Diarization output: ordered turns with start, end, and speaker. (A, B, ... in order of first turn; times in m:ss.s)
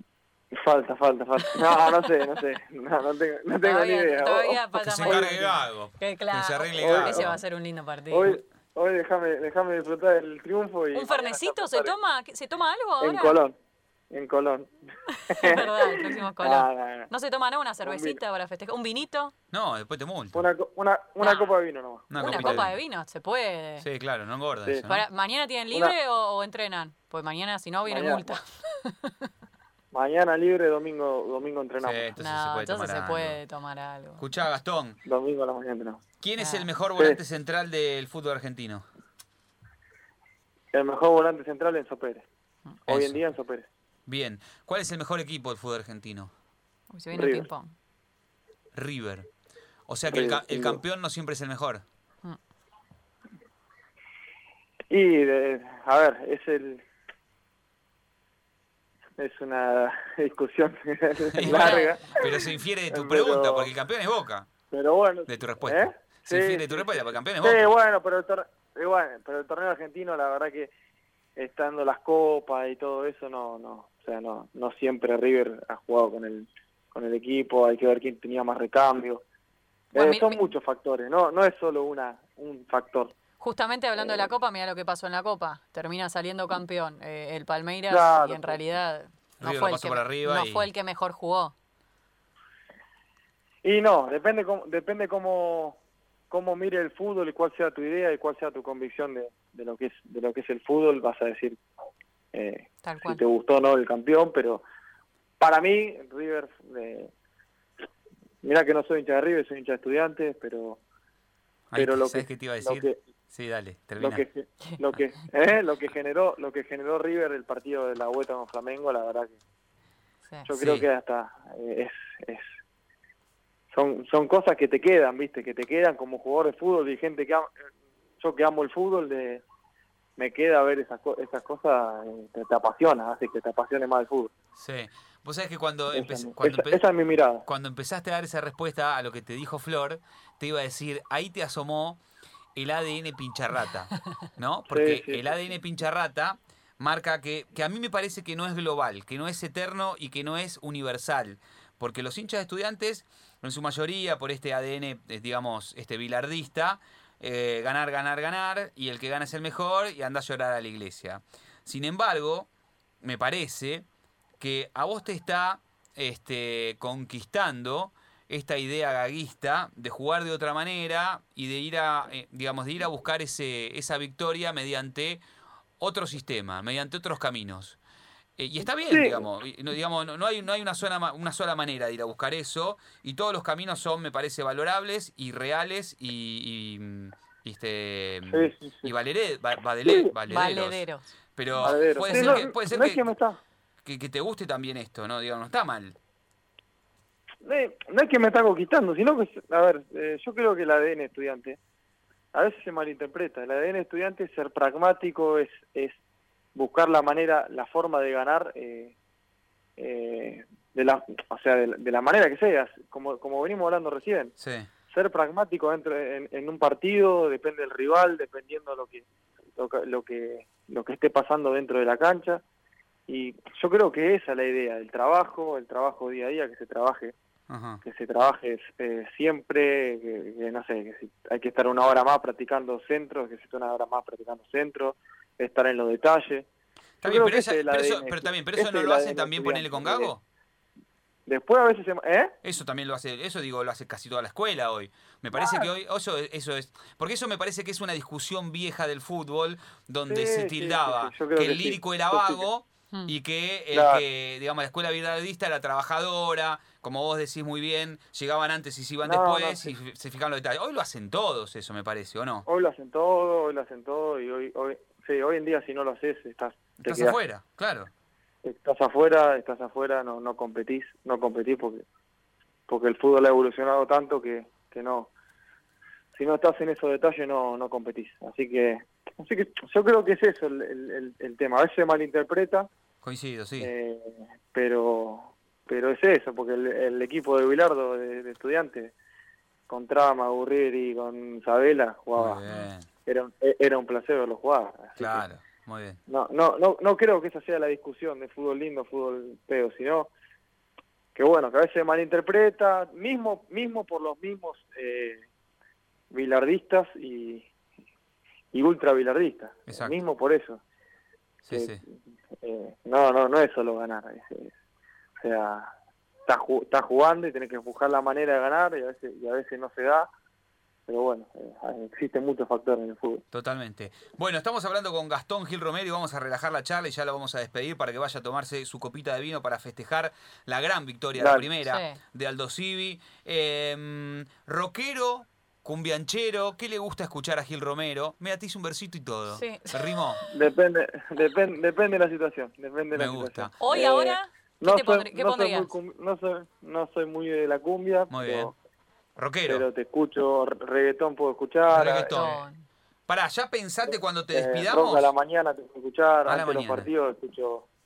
0:00.5-0:05.4 A
0:01.4-0:01.9 B
0:03.6-0:08.3 B
0:04.8-0:07.4 C
0:06.8-0:07.4 A
0:08.1-0:11.9 A
0:10.9-0:13.4 B
0:13.0-0:13.6 A
0:14.1-0:14.7 A
0:15.1-0:19.3 B
0:15.3-0:17.1 A
0:17.8-0:18.2 A
0:19.5-0:20.4 C
0:20.3-0:22.7 A
0:21.2-0:21.5 B
0:22.1-0:22.7 C
0:22.2-0:23.8 B
0:23.8-0:25.0 C
0:24.9-0:29.3 B
0:27.9-0:28.4 A
0:29.9-0:32.1 A
0:31.8-0:33.4 C
0:32.2-0:34.2 B
0:34.2-0:35.0 C
0:35.0-0:36.0 A
0:36.2-0:38.8 C
0:36.4-0:36.7 B
0:40.7-0:42.2 A
0:42.9-0:43.2 C
0:42.9-0:43.7 A
0:44.1-0:46.3 C
0:46.9-0:47.7 B
0:47.1-0:47.5 A
0:48.7-0:49.3 C
0:49.9-0:51.8 C
0:50.1-0:50.8 A
0:54.9-0:56.8 A
0:59.2-1:03.7 A
1:01.3-1:04.5 C
1:01.4-1:02.0 B
1:04.7-1:10.7 A
1:05.3-1:07.7 C
1:11.4-1:19.2 A
1:19.9-1:20.4 B
1:19.9-1:23.1 A
1:23.4-1:31.5 B
1:24.0-1:24.3 A
1:27.9-1:28.6 A
1:29.4-1:30.7 C
1:33.6-1:35.8 A
1:36.3-1:41.6 A
1:42.3-1:44.6 A
1:42.8-1:43.2 B
1:45.4-1:47.1 A
1:48.4-1:50.8 A
1:51.7-1:54.2 C
1:51.8-1:53.0 A
1:54.0-1:59.4 A
2:00.4-2:02.5 A
2:00.5-2:00.8 C
2:03.7-2:07.6 A
2:08.2-2:09.4 A
2:10.2-2:14.3 A
2:14.6-2:16.8 C
2:15.9-2:17.4 A
2:17.4-2:22.0 C
2:22.5-2:42.5 C
2:24.7-2:25.3 A
2:43.0-2:43.8 C
2:44.4-2:55.2 C
2:55.8-2:57.8 C
2:58.4-3:10.8 C
2:58.9-2:59.2 A
3:08.3-3:08.9 A
3:09.8-3:10.1 A
3:10.3-3:11.1 B
3:11.4-3:13.0 C
3:11.6-3:13.4 A
3:12.1-3:12.4 B
3:13.8-3:16.0 C
3:17.4-3:21.6 A
3:22.3-3:26.0 A
3:26.5-3:28.9 A
3:29.8-3:34.3 A
3:34.4-3:34.7 C
3:34.9-3:42.4 A
3:43.1-3:47.1 A
3:47.5-3:47.8 C
3:47.8-3:56.5 A
3:57.0-4:00.2 C
3:57.0-4:00.1 A
4:01.2-4:02.3 A
4:02.4-4:22.4 C
4:05.3-4:05.7 A
4:10.1-4:12.4 A
4:13.7-4:14.0 A
4:19.0-4:19.7 A
4:22.4-4:27.2 A
4:26.8-4:27.9 C
4:28.4-4:31.8 A
4:32.7-4:35.1 A
4:36.1-4:42.7 A
4:43.0-4:43.7 C
4:43.6-4:48.9 A
4:49.7-4:52.4 A
4:52.2-4:52.9 C
4:53.0-4:55.2 A
4:55.0-4:56.0 C
4:56.1-5:00.1 A
5:01.1-5:05.3 A
5:06.1-5:07.5 A
5:08.5-5:10.6 A
5:09.7-5:10.0 C
5:11.4-5:11.8 C
5:11.5-5:11.8 A
5:12.3-5:14.5 A
5:15.2-5:15.7 A
5:16.2-5:20.1 A
5:20.9-5:23.2 A
5:23.3-5:40.2 C
5:31.2-5:31.5 A
5:31.6-5:32.0 B
5:39.3-5:40.4 B
5:40.3-5:48.5 A
5:42.9-5:43.5 C
5:43.6-5:45.7 B
5:48.1-5:48.5 C
5:49.2-5:49.6 C
5:49.5-5:52.3 A
5:51.7-5:52.4 C
5:52.1-5:52.6 B
5:53.1-5:55.1 C
5:54.3-5:57.7 A
5:56.2-5:56.9 C